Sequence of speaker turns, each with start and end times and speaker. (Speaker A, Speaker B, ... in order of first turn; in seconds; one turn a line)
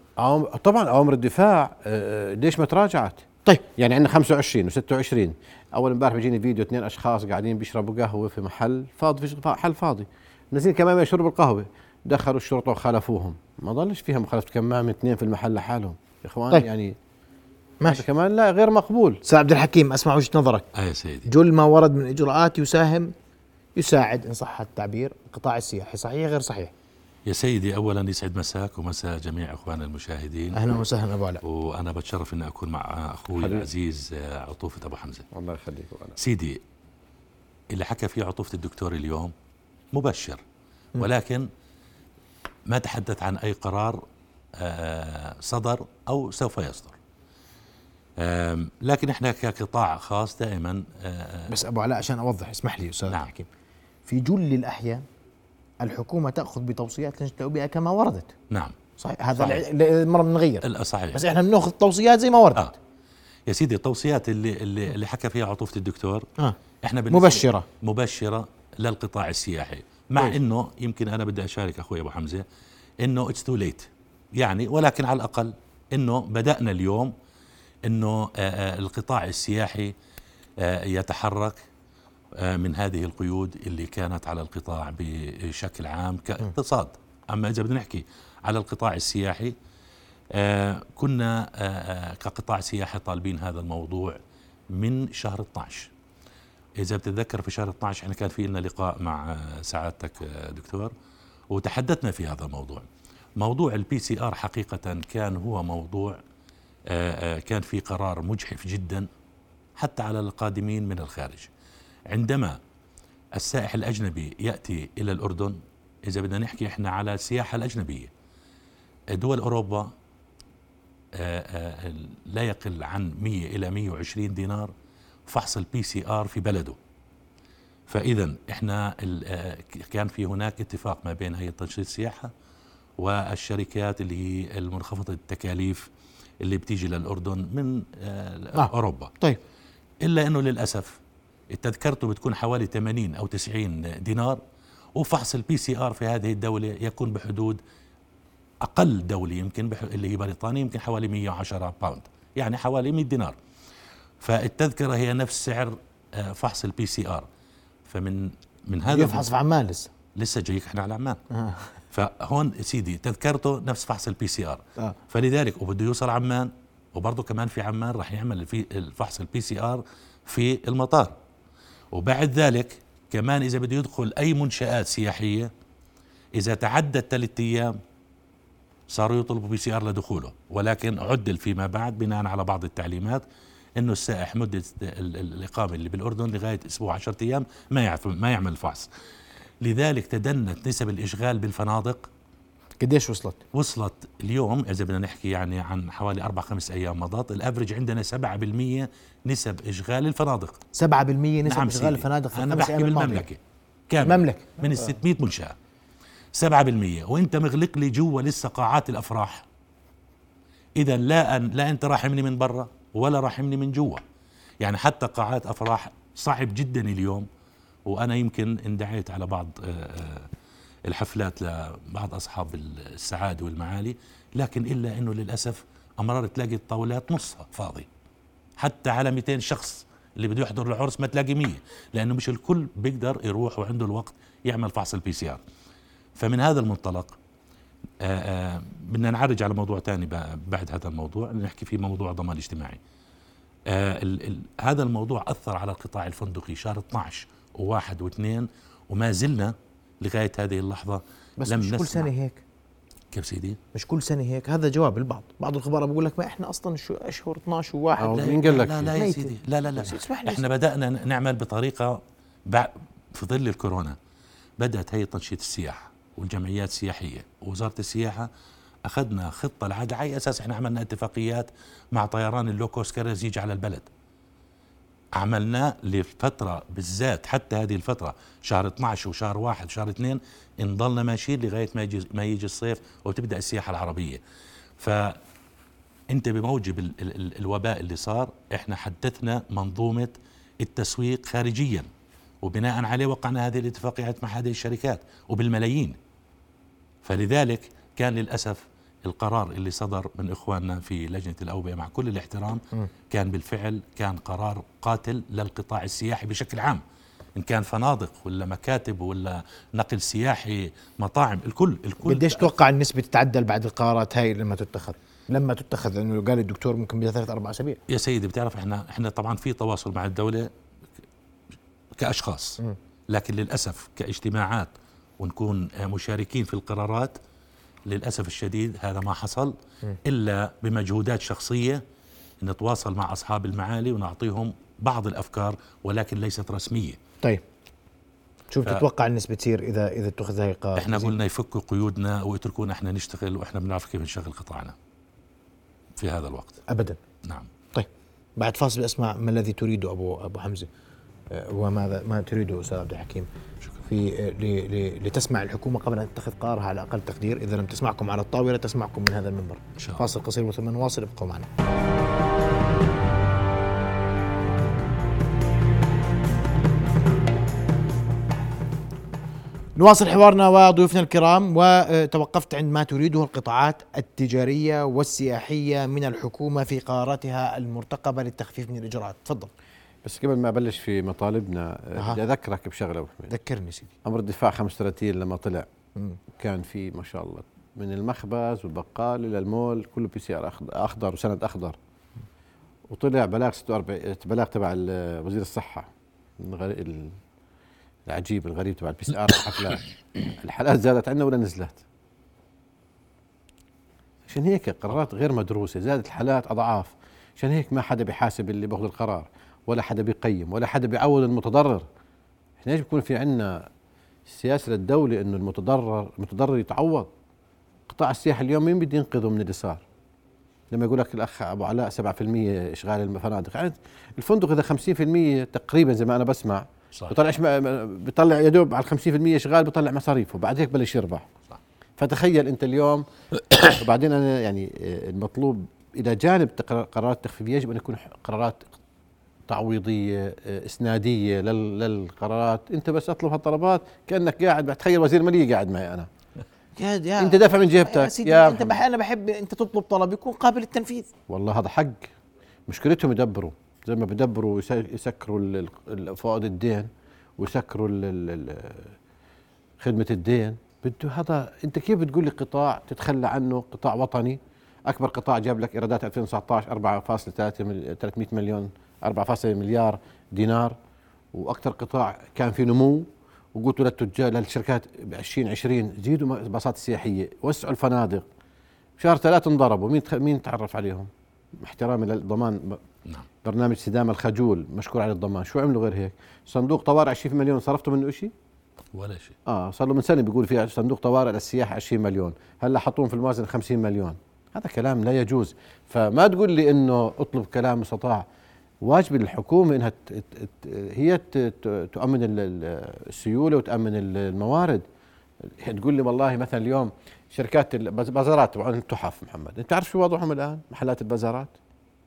Speaker A: 0.2-3.2
Speaker A: 3.8-17.0
Speaker A: 17.9-19.2
Speaker B: 19.2-20.7
Speaker C: 20.8-21.3
Speaker B: 21.3-23.1
Speaker B: 23.8-26.7
Speaker C: 27.3-30.6
Speaker B: 30.5-31.4
Speaker C: 31.4-35.2
Speaker A: 33.4-33.7
Speaker A: 35.3-36.2
Speaker C: 36.2-36.6
Speaker C: 37.7-39.3
Speaker C: 39.9-40.4
Speaker C: 41.0-41.5
Speaker C: 42.7-44.0
Speaker C: 44.6-47.0
Speaker C: 48.2-51.5
Speaker B: 51.5-53.5
Speaker B: 54.1-55.0
Speaker B: 55.8-58.3
Speaker C: 58.5-58.8
Speaker B: 59.0-62.7
Speaker C: 59.4-59.6
Speaker C: 60.6-61.2
Speaker C: 63.5-66.3
Speaker C: 66.8-72.5
Speaker B: 67.1-67.7
Speaker C: 73.0-77.1
Speaker C: 77.9-79.9
Speaker C: 80.6-81.6
Speaker C: 82.4-89.5
Speaker C: 90.3-94.2
Speaker C: 94.7-95.9
Speaker C: 96.8-100.9
Speaker C: 101.5-102.9
Speaker C: 103.4-106.2
Speaker C: 106.9-109.1
Speaker C: 109.8-111.5
Speaker C: 112.1-112.6
Speaker C: 113.3-118.1
Speaker C: 119.1-119.9
Speaker C: 121.2-124.7
Speaker C: 125.3-126.8
Speaker C: 127.9-132.3
Speaker C: 133.0-135.9
Speaker C: 136.4-139.1
Speaker B: 138.5-139.4
Speaker C: 140.0-141.0
Speaker C: 141.5-144.4
Speaker C: 145.0-147.6
Speaker C: 148.6-153.3
Speaker C: 154.2-157.3
Speaker C: 157.9-159.3
Speaker B: 158.9-159.9
Speaker C: 160.2-161.2
Speaker B: 161.3-161.8
Speaker C: 161.9-171.1
Speaker C: 171.9-175.5
Speaker C: 176.3-177.8
Speaker C: 178.9-183.2
Speaker C: 183.8-188.9
Speaker C: 189.6-192.1
Speaker B: 192.8-193.4
Speaker C: 193.5-200.6
Speaker B: 200.8-203.3
Speaker C: 201.4-205.6
Speaker B: 204.0-204.6
Speaker C: 206.3-209.4
Speaker C: 210.8-214.0
Speaker C: 214.6-217.3
Speaker C: 217.9-220.3
Speaker C: 220.9-227.9
Speaker C: 228.6-235.4
Speaker C: 236.2-237.2
Speaker C: 238.0-242.8
Speaker C: 243.7-252.1
Speaker B: 251.4-252.4
Speaker C: 253.1-253.6
Speaker B: 253.7-258.3
Speaker A: 258.0-259.0
Speaker C: 258.1-264.0
Speaker B: 259.0-260.4
Speaker C: 264.6-268.3
Speaker C: 268.9-273.9
Speaker C: 275.2-284.2
Speaker C: 284.8-285.2
Speaker C: 286.1-291.9
Speaker C: 292.4-296.0
Speaker C: 297.1-306.8
Speaker C: 307.4-312.5
Speaker B: 312.0-317.8
Speaker C: 317.9-320.5
Speaker C: 322.0-327.2
Speaker C: 327.9-331.8
Speaker C: 332.4-337.0
Speaker B: 338.5-341.1
Speaker C: 340.8-344.8
Speaker C: 346.0-346.6
Speaker B: 346.7-347.0
Speaker C: 347.2-347.5
Speaker B: 347.7-350.7
Speaker B: 351.3-353.3
Speaker B: 353.9-361.5
Speaker C: 359.8-360.0
Speaker B: 369.8-379.5
Speaker A: 380.0-383.3
Speaker B: 383.3-383.9
Speaker A: 384.1-385.7
Speaker A: 386.3-391.8
Speaker A: 392.9-397.2
Speaker A: 398.1-401.8
Speaker A: 404.3-411.9
Speaker A: 412.6-413.7
Speaker A: 414.3-417.1
Speaker A: 417.9-419.8
Speaker A: 420.7-431.3
Speaker A: 432.0-433.1
Speaker A: 433.6-438.7
Speaker A: 439.5-446.1
Speaker B: 446.8-451.1
Speaker A: 447.2-448.8
Speaker A: 451.3-452.1
Speaker A: 452.7-458.9
Speaker A: 459.8-470.8
Speaker A: 471.3-478.3
Speaker A: 479.0-482.8
Speaker A: 483.4-488.3
Speaker C: 488.9-489.4
Speaker A: 489.5-498.3
Speaker A: 498.8-504.9
Speaker A: 505.4-511.5